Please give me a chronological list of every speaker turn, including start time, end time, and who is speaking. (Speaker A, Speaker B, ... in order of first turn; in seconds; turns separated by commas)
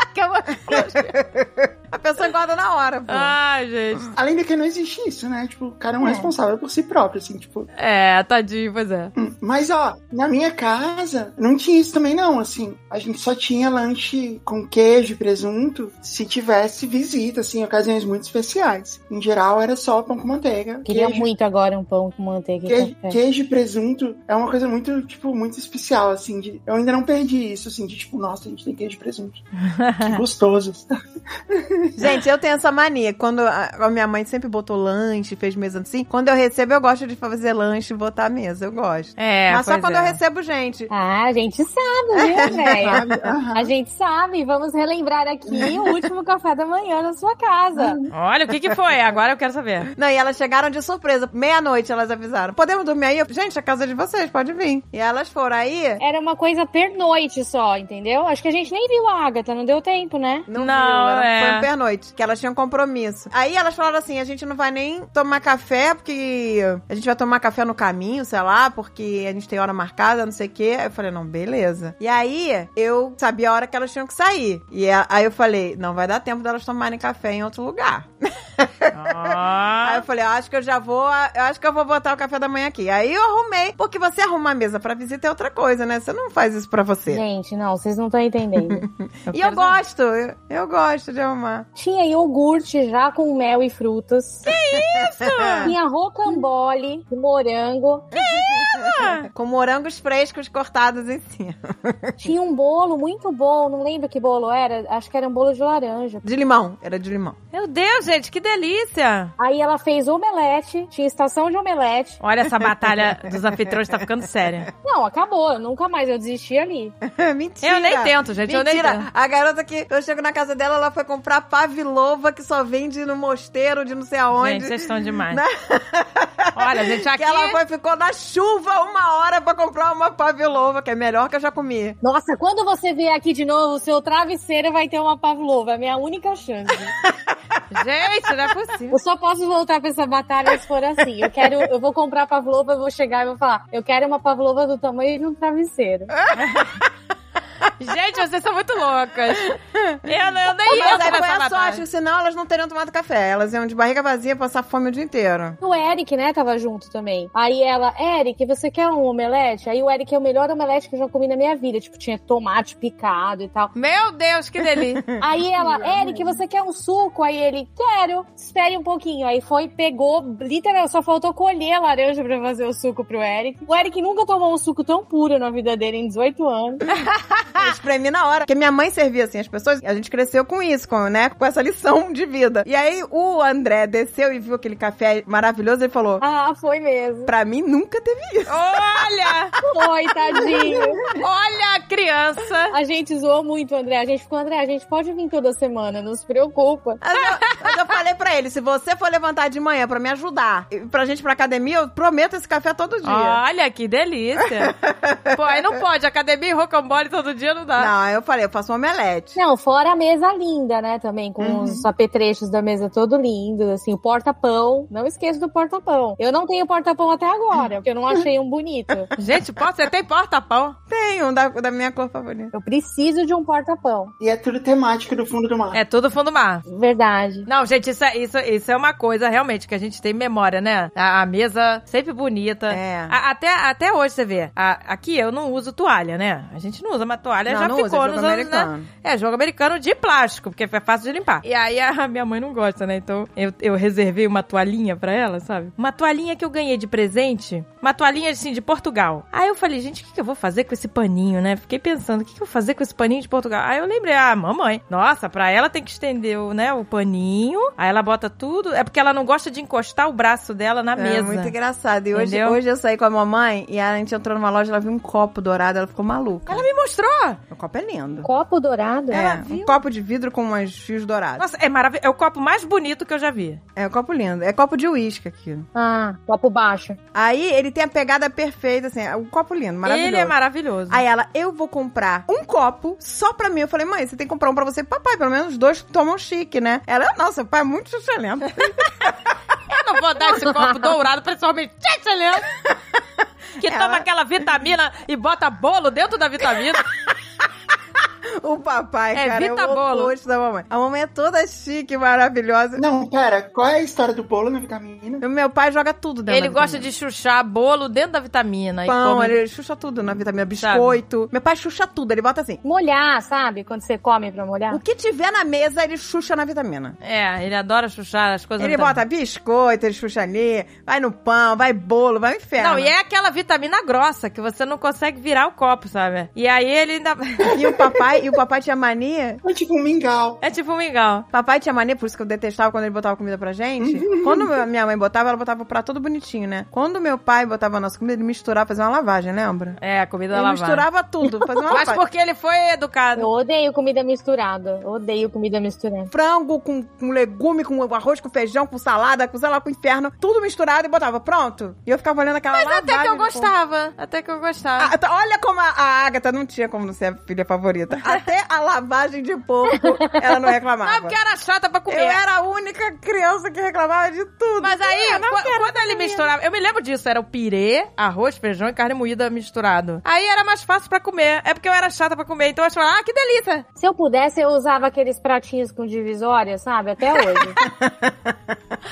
Speaker A: 0.1-1.2, Speaker B: 0.5-3.4, Speaker A: 3.1-4.1, Speaker C: 4.2-7.7, Speaker D: 6.0-6.3, Speaker A: 7.8-9.1, Speaker C: 9.2-21.3, Speaker D: 20.9-23.2, Speaker C: 22.7-29.4, Speaker A: 29.8-30.2, Speaker C: 30.0-32.1, Speaker B: 31.9-40.9, Speaker A: 39.2-40.2, Speaker D: 40.9-43.0, Speaker B: 42.1-43.3, Speaker C: 42.5-43.7, Speaker D: 43.5-48.0, Speaker C: 45.5-45.9, Speaker C: 47.8-48.1, Speaker A: 48.1-49.9, Speaker B: 49.9-56.0, Speaker D: 56.0-60.5, Speaker B: 60.5-87.2, Speaker A: 60.6-61.7, Speaker A: 78.9-80.0, Speaker D: 87.1-88.8, Speaker B: 88.6-91.7, Speaker A: 89.3-89.8, Speaker D: 91.8-94.5, Speaker A: 94.5-95.7, Speaker B: 94.7-95.7, Speaker D: 95.6-98.1, Speaker B: 98.1-102.3, Speaker A: 98.1-99.3, Speaker D: 102.2-106.2, Speaker B: 106.2-107.4, Speaker A: 107.5-109.3, Speaker D: 109.4-112.2, Speaker A: 112.2-114.7, Speaker B: 112.6-113.3, Speaker D: 114.8-116.9, Speaker B: 117.0-132.0, Speaker A: 117.6-119.1, Speaker A: 124.3-125.4, Speaker A: 126.5-127.6, Speaker D: 132.0-136.9, Speaker A: 137.7-139.0, Speaker D: 138.9-146.1, Speaker A: 146.3-146.8, Speaker A: 147.8-151.8, Speaker B: 149.8-150.1, Speaker B: 150.6-155.6, Speaker D: 155.6-163.7, Speaker A: 163.7-165.0, Speaker D: 165.2-176.8, Speaker C: 165.6-166.3, Speaker A: 177.1-177.4, Speaker B: 177.5-186.2, Speaker D: 186.2-187.3, Speaker B: 187.2-188.6, Speaker A: 188.5-189.5, Speaker D: 189.6-191.0, Speaker C: 190.4-190.8, Speaker A: 191.1-192.7, Speaker D: 192.7-197.0, Speaker B: 197.0-203.4, Speaker A: 197.2-197.8, Speaker A: 203.0-204.7, Speaker B: 204.4-205.6, Speaker A: 205.3-207.9, Speaker B: 207.8-209.4, Speaker D: 209.3-219.1, Speaker C: 211.4-211.8, Speaker A: 219.2-220.8, Speaker B: 220.9-222.5, Speaker D: 222.5-224.1, Speaker C: 224.2-225.8, Speaker A: 225.7-226.6, Speaker D: 226.7-227.5, Speaker A: 227.4-261.5, Speaker B: 232.7-233.2, Speaker B: 237.5-238.9, Speaker B: 260.9-266.6, Speaker A: 262.1-262.6, Speaker A: 266.5-267.4, Speaker B: 267.5-268.3, Speaker D: 268.2-269.2, Speaker B: 269.1-271.4, Speaker A: 269.1-269.8, Speaker A: 271.4-273.6, Speaker B: 273.8-275.7, Speaker D: 275.7-277.0, Speaker B: 277.1-280.3, Speaker A: 279.8-281.0, Speaker B: 280.9-289.2, Speaker A: 289.7-292.5, Speaker A: 293.6-296.9, Speaker B: 293.6-294.1, Speaker B: 298.4-302.8, Speaker A: 299.1-300.1, Speaker C: 302.8-305.2, Speaker B: 305.2-306.9, Speaker A: 306.3-309.4, Speaker B: 308.9-312.6, Speaker A: 310.6-311.0, Speaker D: 312.6-314.8, Speaker B: 314.7-316.9, Speaker A: 317.0-319.0, Speaker B: 318.6-322.9, Speaker A: 322.6-327.5, Speaker C: 327.4-328.1, Speaker B: 327.5-329.4, Speaker C: 329.4-330.4, Speaker A: 330.4-331.2, Speaker B: 331.3-339.8, Speaker C: 333.8-334.5, Speaker A: 339.8-340.8, Speaker B: 340.3-342.0, Speaker A: 341.7-343.3, Speaker D: 343.1-346.1, Speaker B: 346.1-353.5, Speaker A: 352.5-354.9, Speaker B: 354.8-361.1, Speaker D: 359.9-360.1, Speaker A: 360.8-362.2, Speaker B: 361.9-366.2, Speaker A: 364.6-373.6, Speaker D: 373.8-377.6, Speaker B: 377.6-378.3